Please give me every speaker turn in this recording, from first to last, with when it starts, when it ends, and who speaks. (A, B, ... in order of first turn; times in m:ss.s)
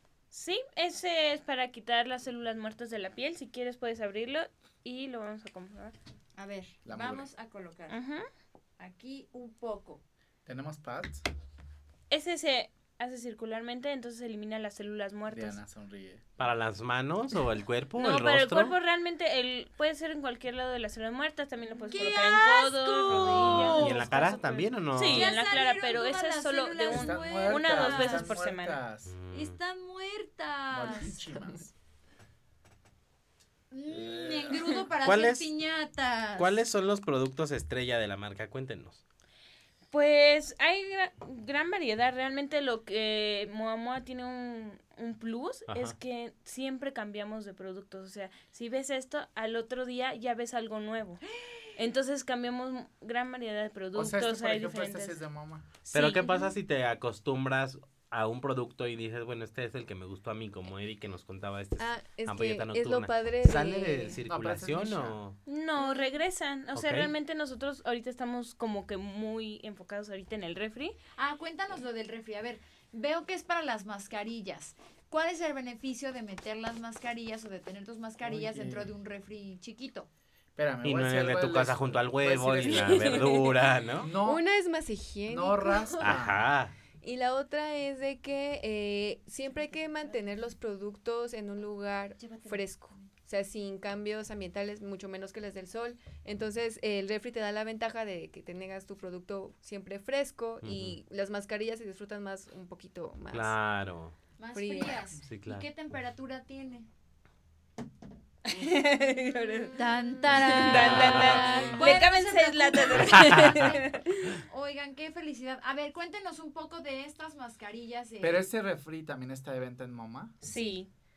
0:00.3-0:05.9 A
0:06.4-0:08.0 B
0:06.8-0:07.3 C
0:07.9-0:08.3 A
0:08.8-0:10.0 B
0:10.4-0:11.2 C
0:12.1-0:15.6 A
0:15.3-0:16.2 C
0:16.4-0:18.7 D
0:18.0-0:28.8 A
0:21.9-0:24.2 B
0:23.3-0:25.3 D
0:25.0-0:28.4 B
0:26.9-0:29.1 C
0:29.1-0:29.6 D
0:29.3-0:31.2 B
0:30.7-0:31.7 C
0:33.7-0:36.6 B
0:34.0-0:35.5 D
0:36.4-0:39.0 D
0:39.9-0:51.2 A
0:45.7-0:46.0 D
0:51.8-0:55.2 A
0:53.9-0:55.7 C
0:55.9-0:56.5 A
0:55.9-1:05.4 D
1:01.8-1:04.2 E
1:04.2-1:05.2 C
1:05.4-1:11.0 A
1:05.8-1:06.1 E
1:06.7-1:07.1 D
1:11.2-1:20.1 B
1:18.2-1:18.9 C
1:20.6-1:23.3 C
1:20.8-1:24.1 D
1:22.7-1:23.5 A
1:24.0-1:24.4 C
1:24.2-1:26.1 E
1:25.3-1:26.4 C
1:26.0-1:26.7 D
1:27.0-1:43.5 E
1:32.2-1:33.1 B
1:40.6-1:41.0 D
1:43.3-1:44.1 D
1:44.4-1:46.9 B
1:44.5-1:45.0 E
1:45.2-1:45.6 D
1:48.4-1:54.3 A
1:49.5-1:51.7 E
1:49.7-1:58.4 B
1:50.5-1:51.4 D
1:53.0-1:53.6 D
1:58.2-2:00.4 C
2:00.4-2:00.9 A
2:00.5-2:00.8 E